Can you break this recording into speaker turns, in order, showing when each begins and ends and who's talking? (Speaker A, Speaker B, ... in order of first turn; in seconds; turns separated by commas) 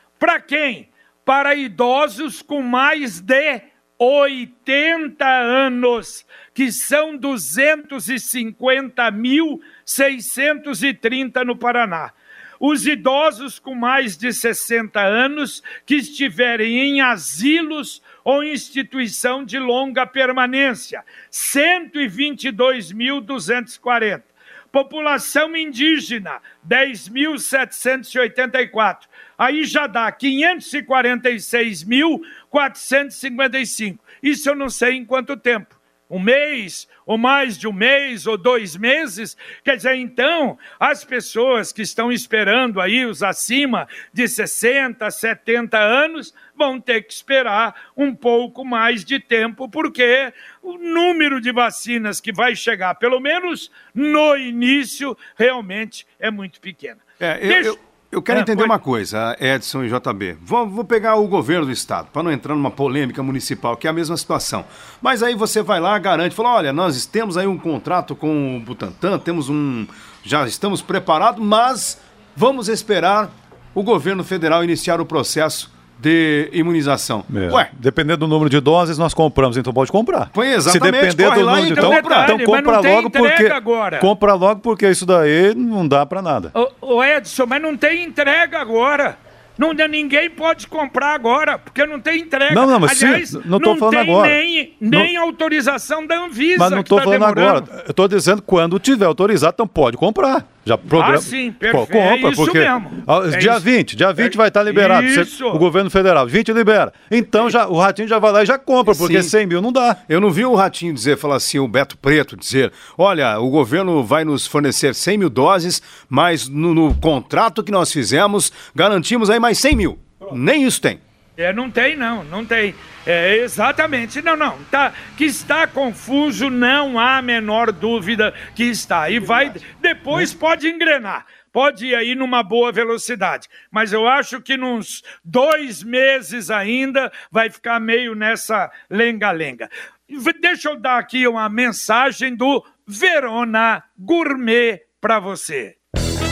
Speaker A: 0.2-57.8, Speaker B: 57.2-77.7, Speaker A: 58.3-58.7, Speaker C: 77.3-86.5, Speaker B: 80.3-82.3, Speaker A: 81.7-84.1, Speaker A: 86.5-97.7, Speaker C: 92.5-94.4, Speaker C: 96.6-110.0, Speaker A: 100.9-103.6, Speaker A: 104.2-105.6, Speaker B: 108.9-109.3, Speaker B: 110.1-121.0, Speaker A: 121.4-145.8